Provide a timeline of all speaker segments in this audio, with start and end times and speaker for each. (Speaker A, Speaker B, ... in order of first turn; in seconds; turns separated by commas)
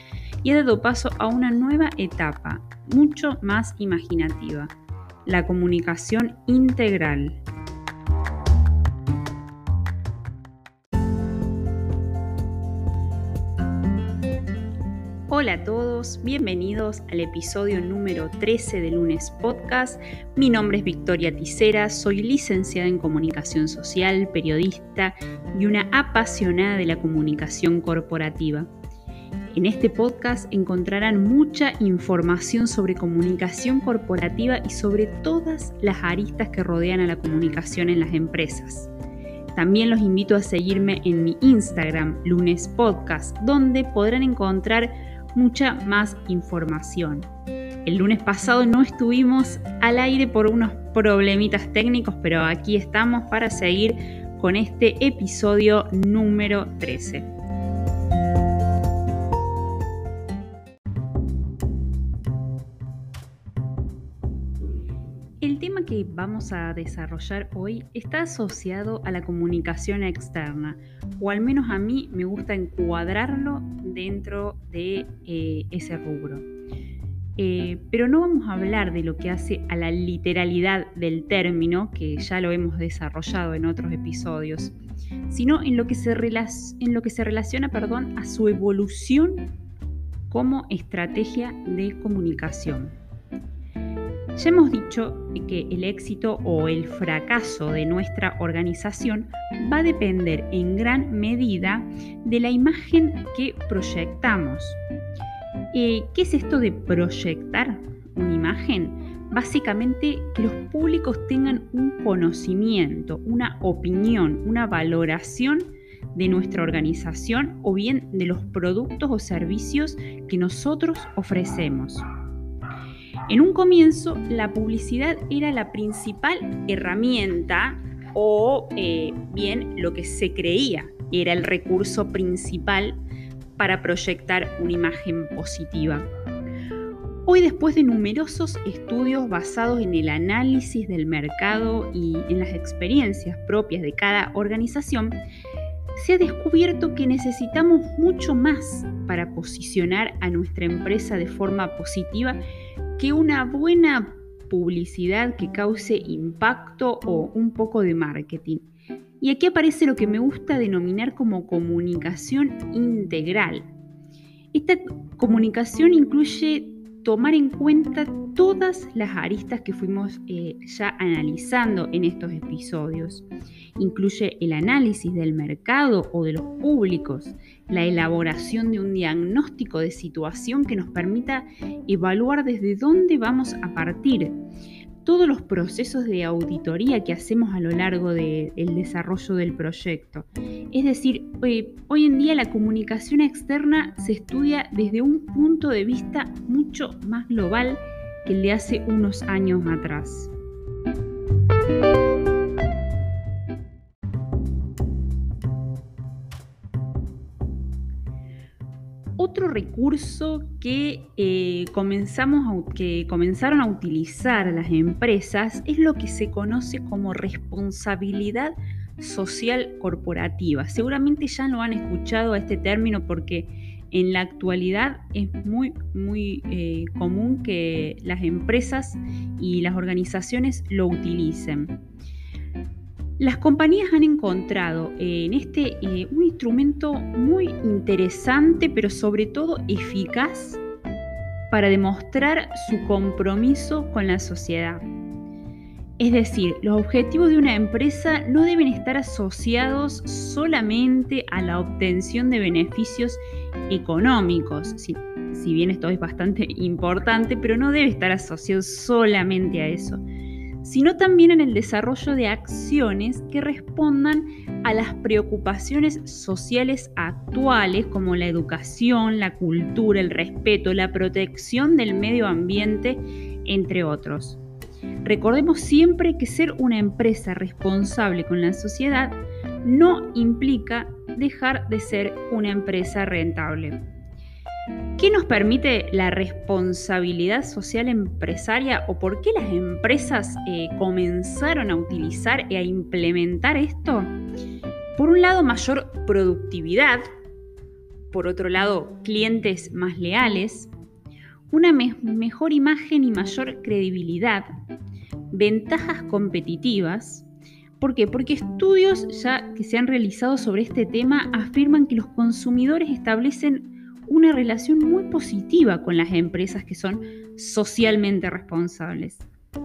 Speaker A: 0.4-4.7, Speaker A: 5.2-7.4, Speaker A: 15.3-28.7, Speaker A: 29.5-38.9, Speaker A: 39.5-47.3, Speaker A: 47.8-57.3, Speaker A: 65.4-76.4, Speaker A: 77.4-84.7, Speaker A: 85.3-89.5, Speaker A: 90.3-93.0, Speaker A: 94.3-104.8, Speaker A: 105.7-122.0, Speaker A: 123.3-133.0, Speaker A: 133.6-136.1, Speaker A: 137.2-145.2, Speaker A: 145.9-152.4, Speaker A: 153.0-158.6, Speaker A: 159.2-163.7, Speaker A: 164.5-173.2, Speaker A: 173.8-184.3, Speaker A: 185.0-200.3, Speaker A: 209.2-231.8, Speaker A: 233.2-240.6, Speaker A: 241.5-244.8, Speaker A: 246.0-260.0, Speaker A: 260.6-274.4, Speaker A: 275.0-283.8, Speaker A: 285.0-294.1, Speaker A: 294.9-297.1, Speaker A: 298.1-300.7, Speaker A: 301.5-304.5, Speaker A: 305.3-307.3, Speaker A: 307.8-319.2